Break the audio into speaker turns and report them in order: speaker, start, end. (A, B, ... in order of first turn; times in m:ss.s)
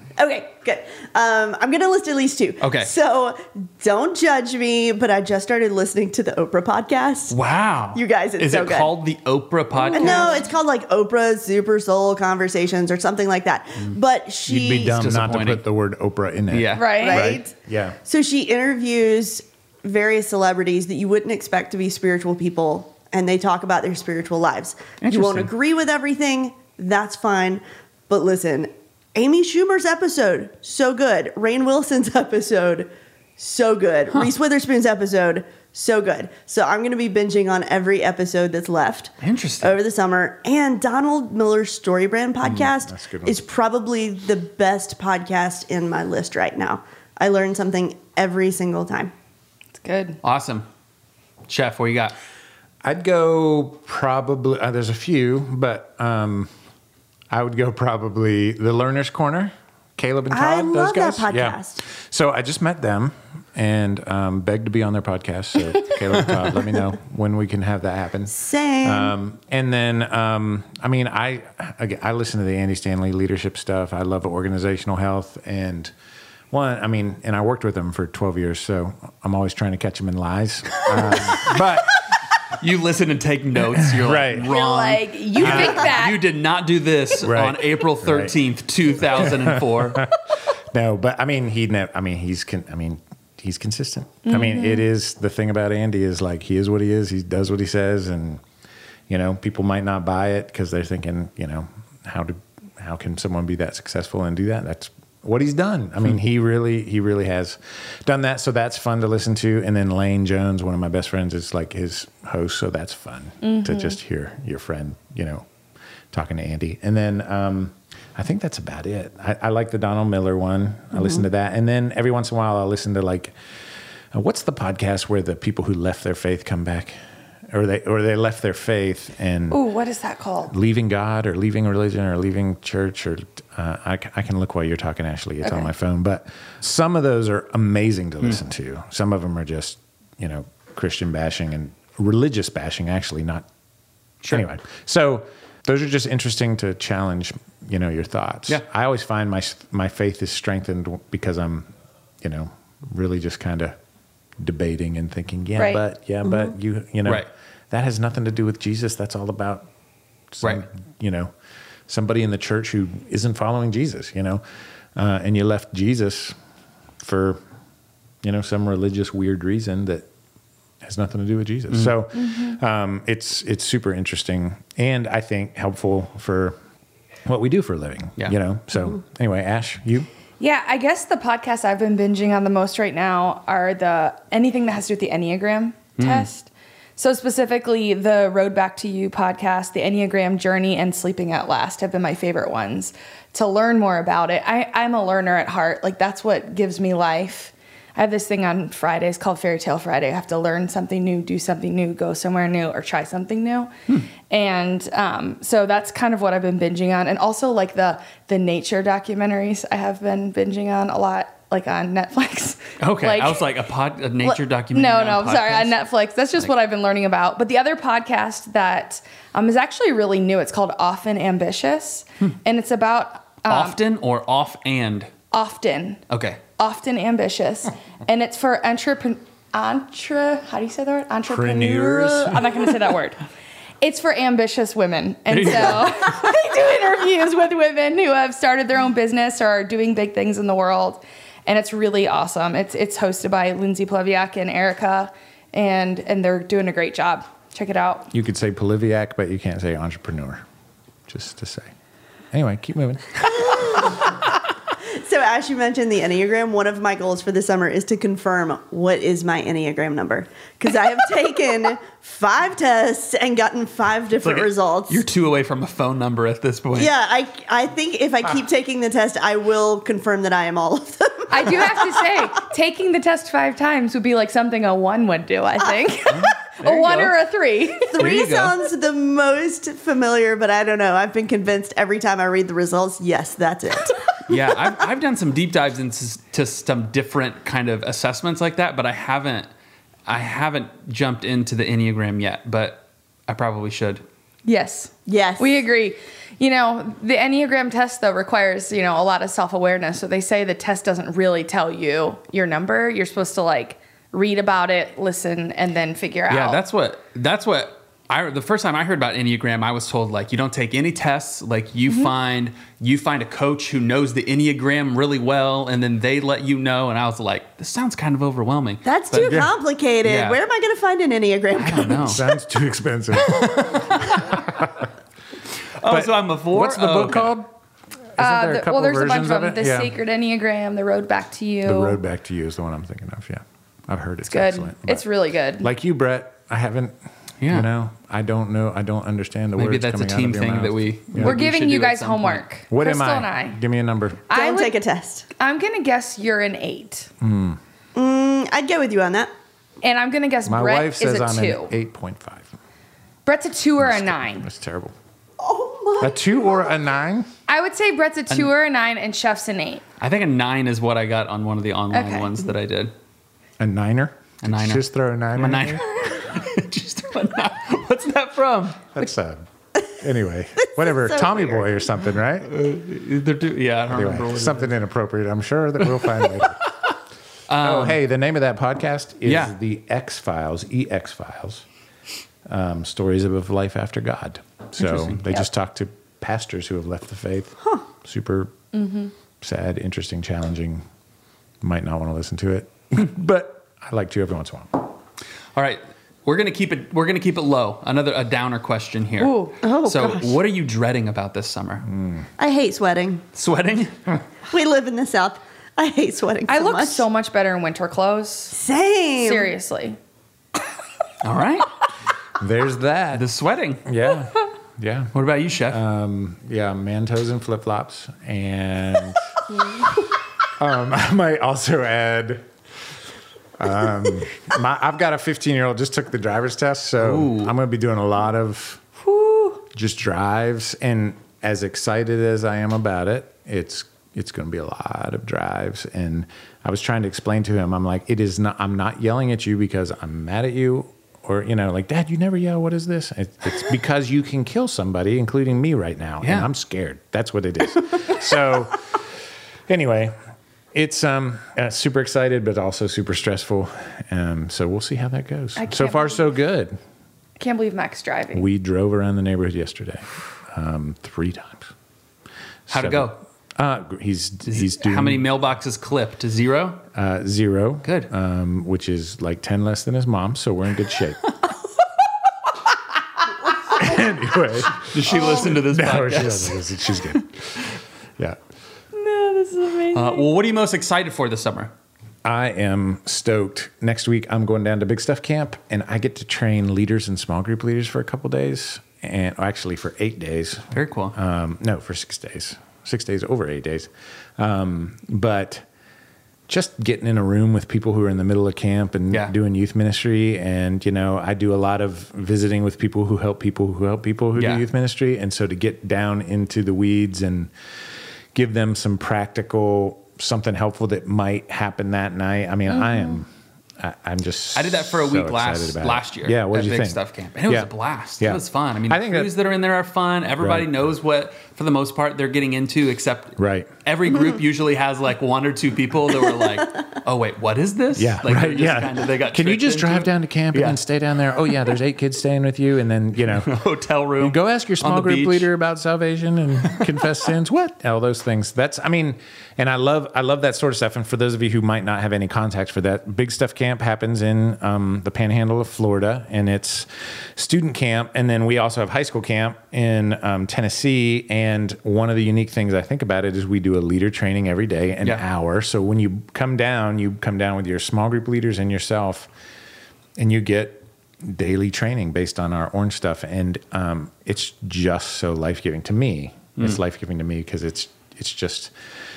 0:00.2-0:07.4 A
0:02.6-0:02.9 B
0:07.3-0:10.4 B
0:08.0-0:08.9 A
0:09.8-0:15.0 A
0:09.9-0:10.5 C
0:14.5-0:18.0 D
0:14.9-0:15.6 B
0:16.5-0:17.0 B
0:16.7-0:17.4 C
0:16.9-0:17.5 A
0:18.0-0:49.1 A
0:25.0-0:25.5 B
0:39.2-0:39.8 B
0:42.4-0:43.4 D
0:49.8-0:50.2 C
0:50.2-0:50.7 B
0:51.5-0:52.2 B
0:52.8-0:56.5 D
0:57.3-1:15.9 D
1:00.3-1:01.8 A
1:08.3-1:09.1 A
1:16.5-1:22.0 D
1:22.6-1:30.1 B
1:23.8-1:24.5 D
1:24.4-1:26.2 C
1:25.4-1:25.9 D
1:27.2-1:28.4 D
1:29.1-1:38.4 D
1:34.3-1:34.8 C
1:39.1-1:55.5 D
1:53.4-1:54.0 C
1:56.1-2:03.3 D
2:01.0-2:01.2 A
2:04.1-2:07.0 D
2:07.5-2:09.6 D
2:09.5-2:10.5 C
2:10.5-2:23.5 D
2:15.4-2:15.7 C
2:24.3-2:31.7 D
2:32.2-2:33.8 D
2:34.4-2:39.7 D
2:40.3-2:41.3 D
2:41.9-2:44.4 D
2:45.0-2:46.4 D
2:47.0-2:47.4 D
2:48.2-2:50.1 D
2:50.8-2:56.6 D
2:52.2-2:52.6 C
2:57.3-3:00.1 D
3:00.4-3:33.5 C
3:06.0-3:06.3 B
3:32.8-3:35.8 B
3:34.2-3:43.8 C
3:43.5-3:45.1 B
3:45.3-3:46.0 C
3:46.1-3:46.4 B
3:46.6-3:53.2 C
3:51.3-3:52.6 D
3:53.8-4:08.1 C
3:55.3-3:56.0 B
4:08.1-4:10.4 D
4:11.1-4:11.7 D
4:12.3-4:14.0 D
4:14.9-4:25.0 A
4:24.2-4:26.9 B
4:26.8-4:32.1 A
4:31.3-4:38.0 C
4:36.1-4:37.2 B
4:37.9-4:44.0 A
4:38.0-4:38.6 B
4:44.3-4:49.5 B
4:50.1-4:54.0 B
4:54.4-5:06.6 C
4:55.1-4:55.6 A
5:06.3-5:19.5 B
5:18.8-5:22.2 A
5:19.2-5:19.5 D
5:20.0-5:20.4 B
5:21.6-5:22.2 B
5:22.0-5:24.9 D
5:23.3-5:24.4 B
5:25.8-5:27.4 B
5:25.9-5:27.5 D
5:28.2-5:29.9 D
5:28.2-5:32.0 C
5:31.6-5:35.1 D
5:34.3-5:35.7 C
5:35.6-5:41.4 D
5:37.4-5:37.7 B
5:39.6-5:42.4 B
5:41.2-5:43.6 C
5:42.7-5:44.3 D
5:44.3-5:45.3 A
5:44.3-5:44.8 C
5:45.4-5:47.1 C
5:47.2-5:47.6 D
5:48.0-5:49.3 A
5:49.8-5:51.7 C
5:50.5-5:52.5 D
5:53.2-5:54.5 C
5:53.8-5:54.9 D
5:55.4-5:56.5 A
5:56.0-5:57.3 D
5:57.5-5:59.8 C
6:00.0-6:02.9 B
6:01.9-6:02.3 C
6:03.6-6:05.8 D
6:04.4-6:08.8 B
6:09.0-6:09.4 D
6:10.0-6:12.5 D
6:10.8-6:11.8 A
6:12.5-6:14.8 B
6:13.9-6:16.6 D
6:16.0-6:16.4 B
6:17.5-6:18.0 B
6:17.6-6:21.6 D
6:19.3-6:19.5 B
6:22.5-6:28.5 D
6:24.8-6:25.2 B
6:28.7-6:29.1 C
6:29.4-6:30.8 D
6:31.6-6:34.9 D
6:35.6-6:41.9 B
6:39.2-6:39.6 C
6:39.6-6:40.4 A
6:41.8-6:42.3 D
6:42.4-6:43.2 A
6:43.3-6:44.2 B
6:44.5-6:47.0 A
6:46.5-6:48.6 C
6:48.5-6:49.5 A
6:49.2-6:50.0 C
6:51.2-6:51.7 B
6:52.4-6:53.2 D
6:53.1-6:53.8 B
6:53.8-6:55.2 D
6:55.2-6:55.8 B
6:55.7-6:59.2 D
7:00.6-7:02.4 D
7:03.6-7:08.8 D
7:07.0-7:07.5 B
7:09.0-7:09.6 C
7:09.7-7:29.0 D
7:26.2-7:26.5 B
7:29.7-7:30.1 D
7:30.7-7:36.8 D
7:35.6-7:36.2 C
7:37.4-7:38.5 C
7:38.3-7:41.7 D
7:42.7-7:45.3 D
7:42.7-7:43.2 B
7:44.5-7:46.8 B
7:46.9-7:51.2 D
7:47.8-7:48.1 B
7:53.6-7:57.6 D
7:54.8-7:56.6 B
7:58.9-8:00.3 C
7:59.9-8:01.7 B
8:02.2-8:15.6 D
8:10.7-8:11.2 B
8:16.5-8:27.5 D
8:24.4-8:24.6 B
8:28.3-8:33.3 D
8:32.8-8:33.0 C
8:33.8-8:39.3 D
8:34.6-8:50.8 B
8:40.4-8:40.9 D
8:43.4-8:43.7 D
8:48.0-8:53.5 D
8:53.3-8:55.5 B
8:54.2-9:19.3 D
9:20.2-9:28.7 D